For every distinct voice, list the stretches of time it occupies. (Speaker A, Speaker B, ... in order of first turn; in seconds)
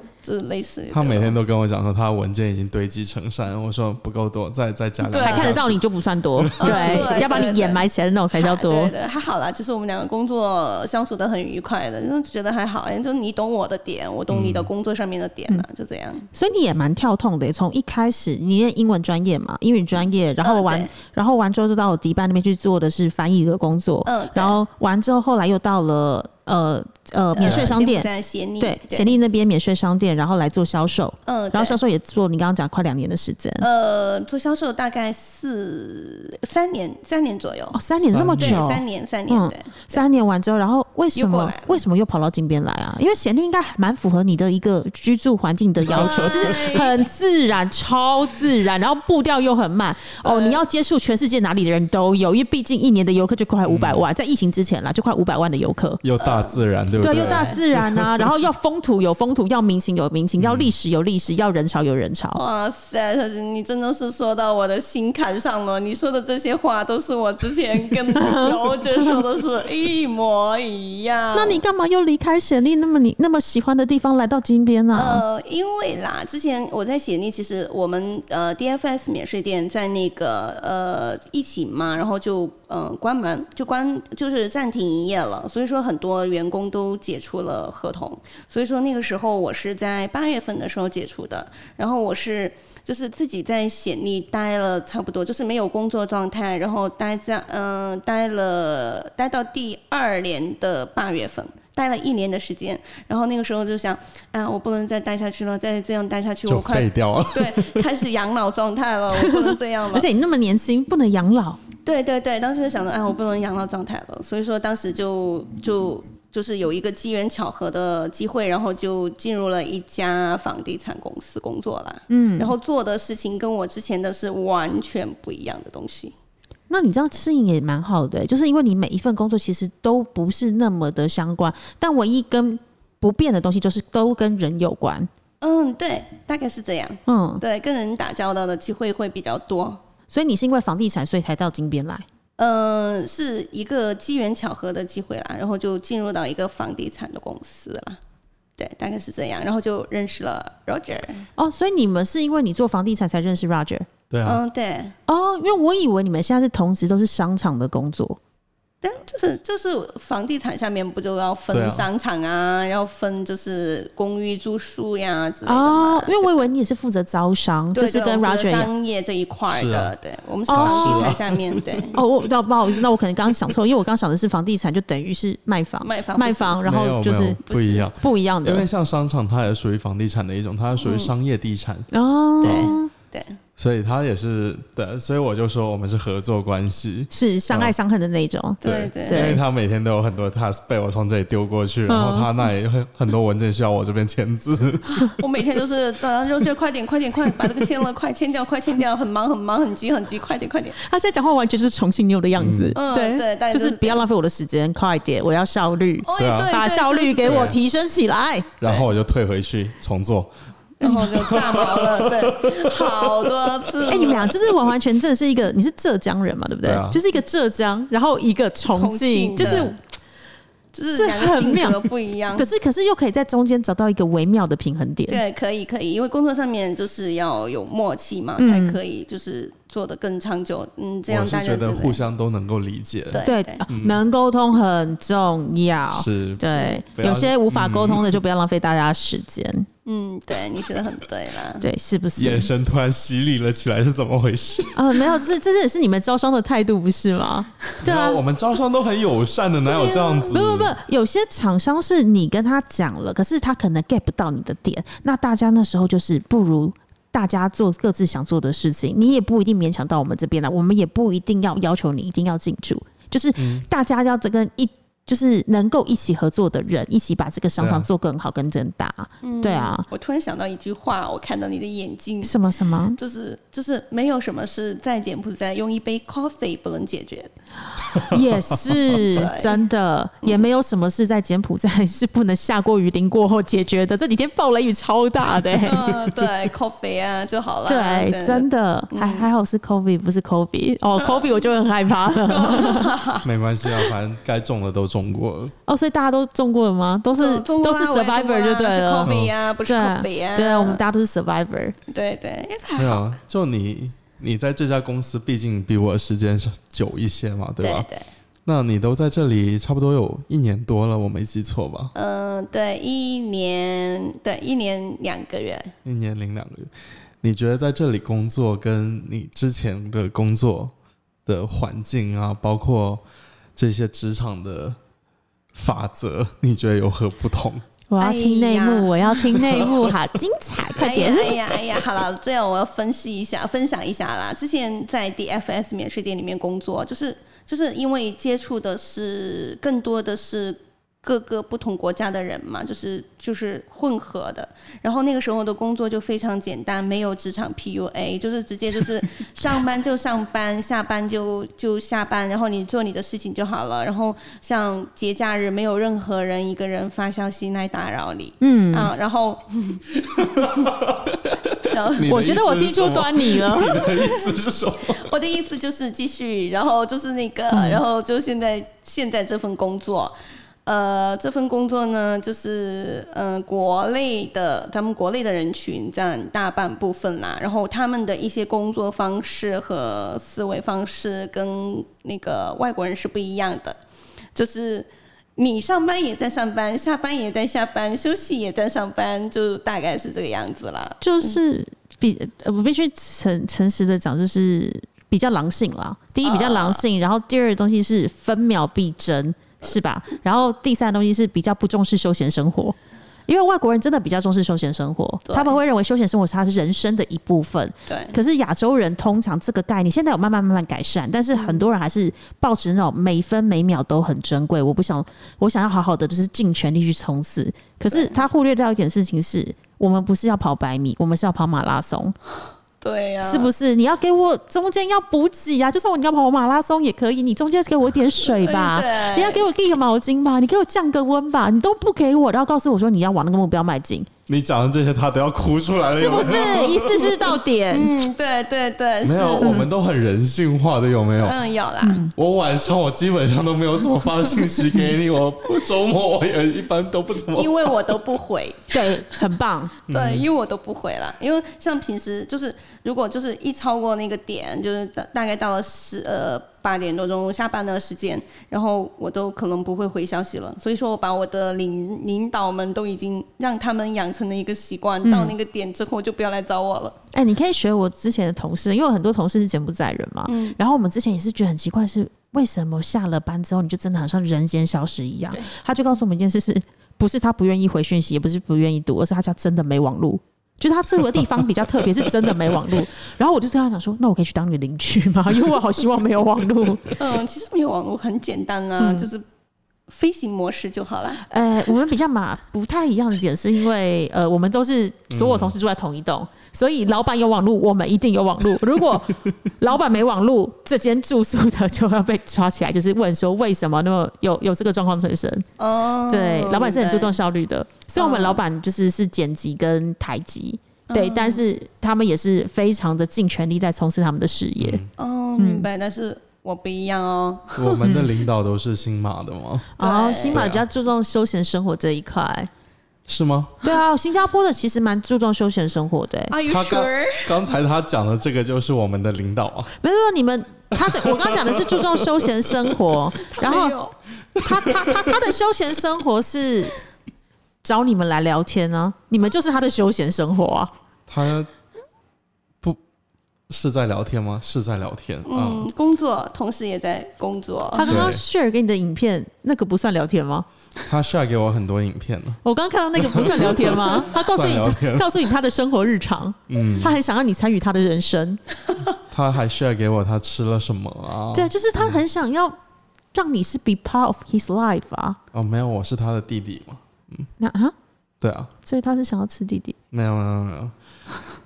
Speaker A: 0.2-1.4, 5.0-5.7, 6.6-16.3, 20.4-20.9, 24.0-24.6, 27.3-29.1, 31.2-31.8, 33.6-37.8, 38.4-40.0, 41.1-41.8, 45.9-47.0, 50.2-50.6, 56.2-57.6, 62.3-71.6, 74.9-110.1, 111.8-126.1, 135.4-139.8, 142.4-148.0, 148.6-151.3, 154.2-154.9, 158.8-166.4, 167.7-172.0, 175.8-176.6, 177.4-177.9, 180.8-181.1, 182.4-183.4, 188.6-189.4, 194.8-200.8, 202.8-204.0, 206.0-207.6, 210.8-214.4, 218.7-219.8, 220.7-222.5, 225.1-232.0, 233.1-233.6, 236.5-236.8, 239.8-241.7, 269.2-272.3, 272.9-277.3, 279.1-279.6, 285.6-289.3, 292.2-293.9, 297.1-300.8, 301.9-303.1, 307.6-308.1, 311.9-315.7, 328.0-329.0, 330.8-359.8, 361.6-362.1, 364.0-364.2, 364.9-383.8, 384.3-391.4, 396.2-396.8, 405.2-405.5, 407.9-408.1, 411.3-411.6, 417.9-418.2, 422.8-423.5, 428.2-429.4, 437.7-439.6, 441.2-442.1, 447.3-449.2, 449.9-467.0, 470.2-470.6, 487.0-489.2, 489.9-491.2, 505.6-507.1, 507.9-508.4, 510.9-511.4, 515.0-517.8, 519.8-520.5, 526.3-527.3, 533.2-533.9, 545.2-548.0
Speaker B: 0.9-5.8, 6.3-7.2, 14.3-14.7, 27.4-27.7, 38.1-38.6, 45.9-46.6, 53.6-54.0, 56.0-58.3, 60.4-60.7, 106.5-107.8, 154.1-154.4, 161.5-161.8, 169.5-169.9, 170.5-171.8, 176.6-181.9, 182.4-182.7, 183.6-187.7, 188.6-194.9, 202.4-202.8, 206.2-206.5, 207.2-207.6, 208.6-210.3, 210.9-213.5, 216.6-217.0, 219.4-219.7, 231.1-234.0, 235.9-238.2, 242.2-244.9, 247.8-250.7, 263.4-263.6, 267.6-267.9, 293.2-295.5, 299.0-299.3, 302.8-307.9, 308.4-311.9, 315.8-316.7, 317.2-320.7, 321.2-323.0, 323.5-324.8, 325.5-327.6, 329.3-329.7, 360.1-365.0, 434.3-437.4, 439.0-441.4, 442.1-447.7, 449.9-450.3, 495.1-495.5, 514.6-514.9, 517.5-519.7, 520.3-520.6, 523.1-523.6, 526.5-529.7, 530.8-532.7, 534.3-535.3, 541.1-541.5, 543.5-545.7, 547.8-548.2, 550.9-552.4, 553.0-555.2, 556.5-557.0, 559.1-562.0, 565.3-567.3, 568.2-568.5, 569.9-570.7
Speaker C: 5.2-8.9, 16.3-28.1, 28.6-33.6, 37.7-56.0, 57.0-62.4, 68.2-69.2, 71.3-75.2, 109.1-111.6, 122.1-122.5, 126.7-135.1, 137.1-137.4, 140.1-142.0, 151.4-153.9, 155.1-158.2, 165.4-168.7, 170.5-171.2, 171.9-178.7, 181.9-182.9, 187.1-189.4, 191.9-192.4, 200.8-208.5, 213.9-219.8, 220.9-225.2, 228.4-228.8, 233.2-239.7, 241.6-242.5, 244.7-248.2, 249.7-269.9, 272.2-273.0, 278.1-286.0, 287.7-292.9, 295.7-299.1, 299.6-301.8, 327.9-331.4, 358.4-358.9, 362.1-364.0, 367.5-367.8, 391.0-402.8, 403.3-422.1, 423.2-434.1, 435.9-437.9, 439.4-439.7, 441.8-442.1, 448.7-449.7, 465.0-465.3, 467.1-487.0, 488.8-489.1, 491.2-505.5, 506.1-514.8, 515.4-515.7, 517.8-518.1, 519.8-522.5, 523.6-526.3, 529.8-533.8, 534.4-536.7, 537.6-540.7, 547.7-550.5, 552.4-558.4, 561.3-562.5, 563.1-565.2, 567.4-567.7, 568.6-569.8